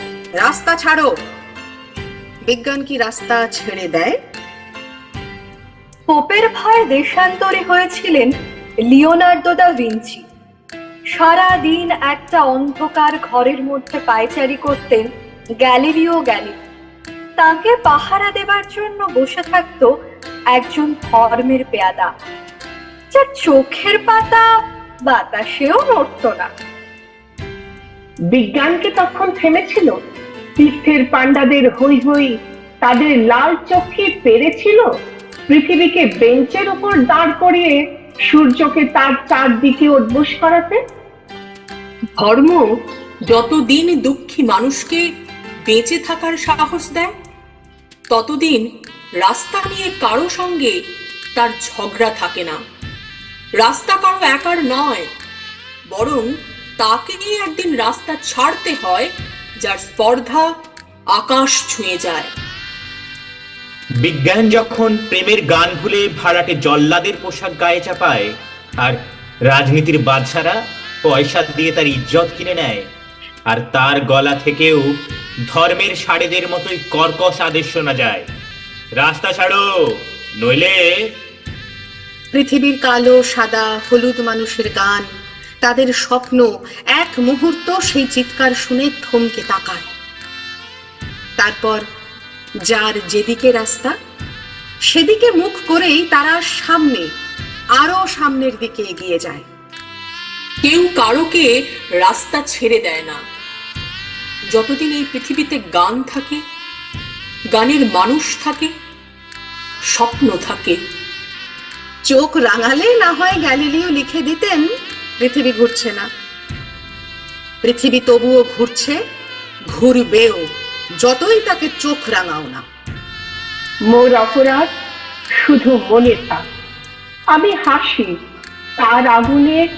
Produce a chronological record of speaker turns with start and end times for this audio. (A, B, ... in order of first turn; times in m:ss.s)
0:00.4-0:01.1 A
0:02.5-0:04.1 A
0:06.1-0:08.3 B
0:08.8-0:10.3 B
0:11.1-0:15.1 B
0:15.6-0:16.6 B
0:17.4-0:19.9 B
0:20.5-0:22.1 B
0:23.1-0:24.5 B
0:25.1-0:26.5 B
0:28.3-0:29.9 C
0:30.6-0:34.8 C
0:35.5-0:37.8 C
0:38.3-0:40.8 C
0:42.2-0:42.7 D
0:43.3-0:45.0 D
0:45.7-0:47.1 D
0:48.1-0:48.6 D
0:49.2-0:50.7 D
0:51.4-0:52.6 D
0:53.6-0:55.1 D
0:55.9-0:56.3 D
0:56.8-1:00.4 D
1:01.1-1:02.3 D
1:04.0-1:08.3 E
1:09.5-1:12.9 E
1:13.5-1:14.8 E
1:15.5-1:18.3 E
1:19.0-1:19.6 E
1:20.4-1:20.8 E
1:22.3-1:25.1 A
1:25.6-1:29.9 A
1:31.4-1:31.8 A
1:32.7-1:33.9 A
1:34.9-1:37.1 A
1:37.8-1:39.5 A
1:40.6-1:43.2 D
1:44.5-1:46.4 D
1:47.5-1:48.7 D
1:49.9-1:50.8 D
1:52.1-1:54.7 A
1:55.2-1:56.1 A
1:57.6-1:59.0 A
1:59.7-2:00.4 A
2:01.0-2:02.6 A
2:03.9-2:04.7 C
2:05.4-2:06.4 C
2:07.3-2:08.1 C
2:08.8-2:09.6 C